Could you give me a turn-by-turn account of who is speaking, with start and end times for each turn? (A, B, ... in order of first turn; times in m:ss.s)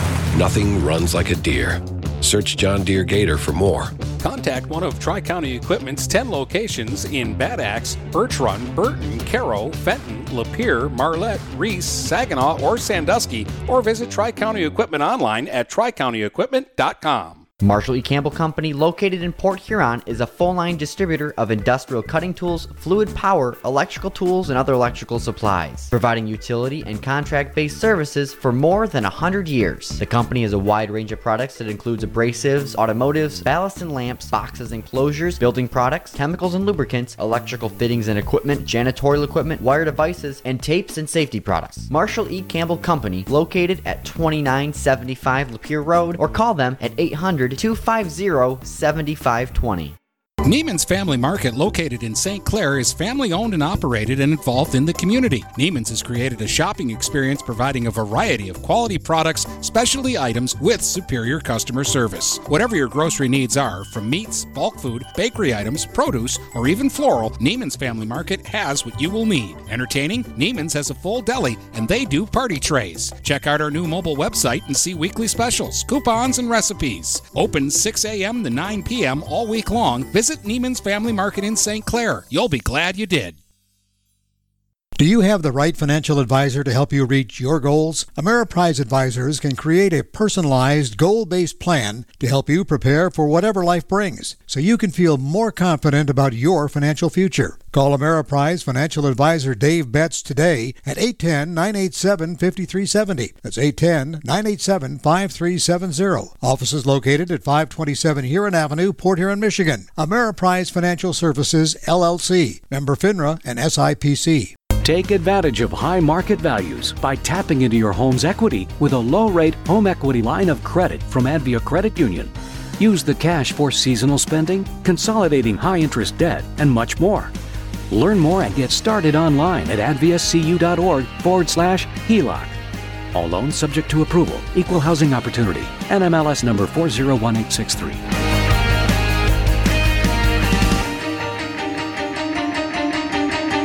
0:00.3-0:04.0 A
0:04.2-0:17.4 B
0:17.6-0:50.0 C
0:50.4-1:23.4 B
1:25.0-1:54.5 D
1:54.8-2:07.3 E
2:07.9-2:12.6 E
2:13.1-2:18.0 E